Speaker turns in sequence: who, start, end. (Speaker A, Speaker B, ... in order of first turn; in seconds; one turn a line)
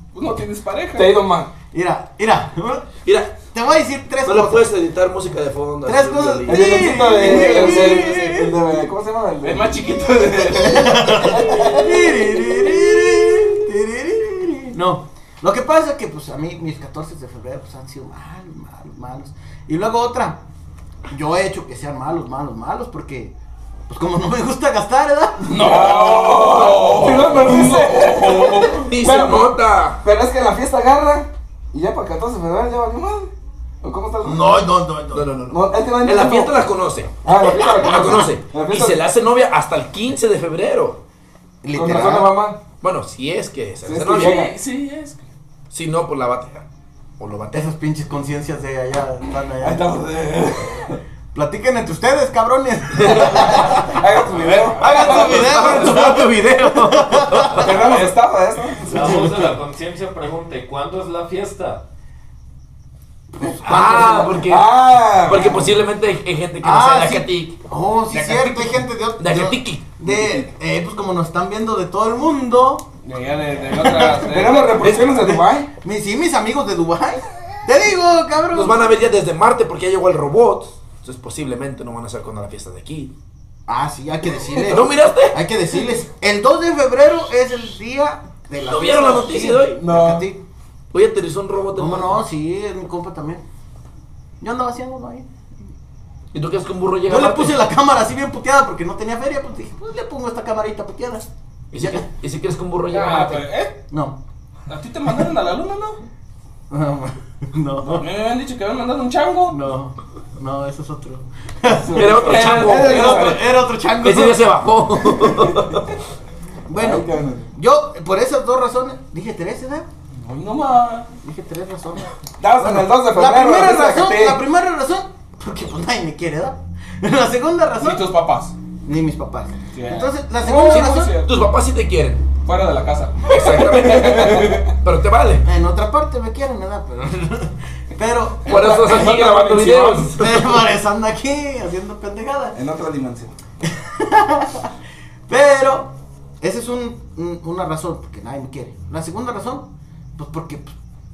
Speaker A: 0.1-1.2
Speaker B: 0.9-1.5
Speaker C: 1.7-2.9
Speaker D: 3.0-3.4
Speaker C: 3.5-4.7
Speaker D: 4.2-6.9
Speaker C: 5.8-8.6
Speaker B: 6.5-9.7
Speaker A: 7.0-8.2
Speaker A: 9.4-11.9
Speaker C: 10.2-20.4
Speaker B: 11.2-11.9
Speaker C: 21.1-23.3
Speaker C: 23.9-26.5
Speaker A: 25.5-28.9
Speaker B: 25.6-34.6
Speaker D: 28.7-30.0
Speaker C: 34.2-35.3
Speaker D: 35.1-41.0
Speaker B: 35.5-36.6
Speaker B: 37.2-39.0
Speaker C: 41.6-42.4
Speaker B: 41.7-42.6
Speaker D: 42.8-44.4
Speaker B: 43.9-44.5
Speaker A: 44.0-45.2
Speaker D: 45.7-46.6
Speaker D: 47.2-47.7
Speaker C: 47.5-49.9
Speaker B: 49.6-51.0
Speaker C: 51.3-54.0
Speaker B: 53.1-56.2
Speaker A: 54.4-56.1
Speaker C: 54.7-58.1
Speaker D: 55.0-58.0
Speaker B: 57.5-59.1
Speaker E: 58.9-61.8
Speaker B: 63.4-65.7
Speaker C: 63.5-64.5
Speaker D: 63.6-67.6
Speaker C: 66.6-72.9
Speaker A: 68.1-68.8
Speaker D: 69.2-69.8
Speaker A: 73.0-75.1
Speaker C: 73.7-74.3
Speaker B: 73.9-75.7
Speaker C: 74.8-78.8
Speaker D: 78.5-83.1
Speaker C: 83.7-90.4
Speaker D: 84.7-85.5
Speaker D: 88.7-89.8
Speaker B: 89.8-90.2
Speaker D: 90.9-92.2
Speaker C: 91.8-93.4
Speaker C: 94.4-95.3
Speaker D: 96.3-97.6
Speaker C: 97.1-101.3
Speaker D: 101.7-103.5
Speaker A: 102.9-103.8
Speaker C: 103.9-104.2
Speaker A: 104.7-106.0
Speaker C: 106.7-108.1
Speaker A: 107.9-109.6
Speaker C: 109.5-114.5
Speaker B: 111.8-113.4
Speaker D: 112.0-113.3
Speaker A: 112.2-113.4
Speaker D: 114.0-115.9
Speaker C: 116.7-119.9
Speaker B: 116.8-117.5
Speaker A: 120.1-121.1
Speaker C: 121.2-128.0
Speaker B: 122.4-124.4
Speaker A: 127.8-128.6
Speaker C: 128.8-131.2
Speaker A: 129.7-131.3
Speaker D: 130.5-132.2
Speaker A: 132.4-134.5
Speaker D: 133.3-135.4
Speaker B: 134.2-134.6
Speaker C: 135.4-139.1
Speaker D: 138.4-140.4
Speaker B: 138.5-140.1
Speaker C: 140.2-142.6
Speaker B: 142.6-143.3
Speaker C: 143.6-144.7
Speaker C: 145.3-150.8